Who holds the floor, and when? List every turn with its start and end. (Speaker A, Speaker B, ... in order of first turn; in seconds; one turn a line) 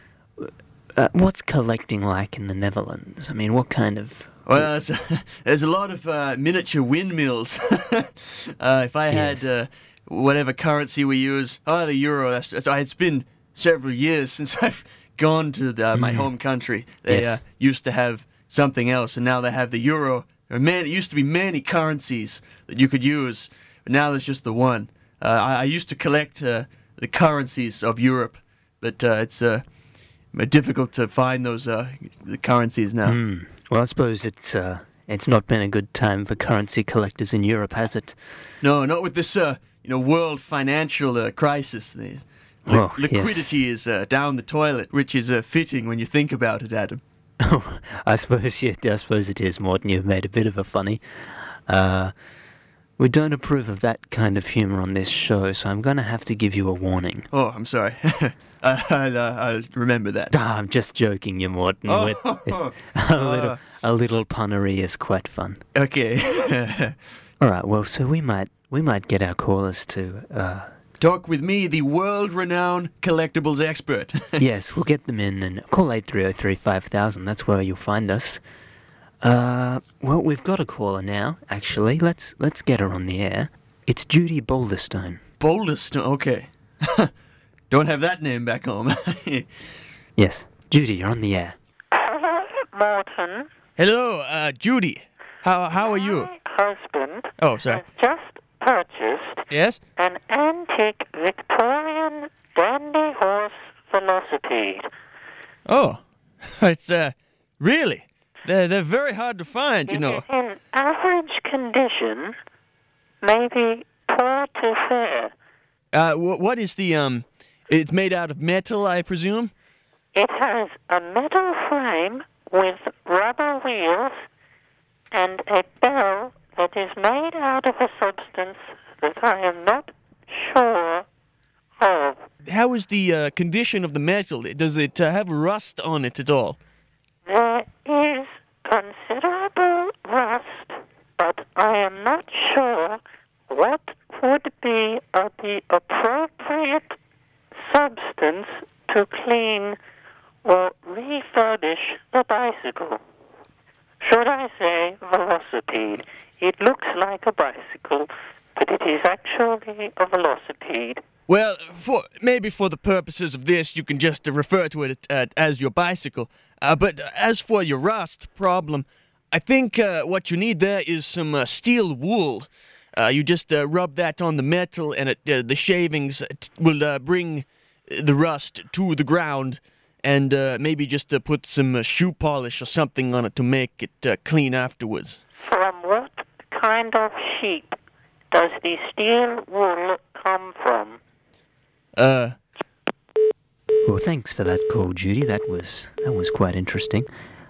Speaker A: 0.4-4.7
Speaker B: 4.5-29.6
Speaker A: 9.1-9.4
Speaker A: 15.9-16.3
Speaker A: 17.1-17.4
Speaker B: 30.3-33.2
Speaker A: 33.1-38.2
Speaker B: 38.6-47.0
Speaker A: 42.7-43.5
Speaker A: 47.4-52.1
Speaker A: 53.0-57.3
Speaker B: 57.3-60.3
Speaker A: 60.3-65.6
Speaker B: 61.9-63.6
Speaker B: 65.8-67.0
Speaker A: 67.4-70.7
Speaker B: 71.0-74.4
Speaker A: 74.4-78.4
Speaker A: 79.2-85.2
Speaker B: 85.4-87.1
Speaker B: 87.7-89.5
Speaker A: 90.2-91.6
Speaker C: 91.9-93.5
Speaker B: 93.8-96.3
Speaker C: 95.8-99.5
Speaker B: 97.4-97.8
Speaker B: 99.5-99.8
Speaker C: 100.0-104.9
Speaker B: 105.7-110.2
Speaker C: 109.9-112.4
Speaker C: 113.2-115.3
Speaker B: 115.9-119.5
Speaker C: 120.2-124.2
Speaker C: 125.1-131.1
Speaker C: 131.8-132.2
Speaker B: 132.4-136.6
Speaker C: 137.3-147.0
Speaker C: 147.6-149.8
Speaker C: 150.4-153.0
Speaker C: 154.0-161.0
Speaker B: 161.3-185.2
Speaker C: 185.4-187.8
Speaker C: 188.3-191.0
Speaker B: 192.0-192.4
Speaker A: 193.8-197.1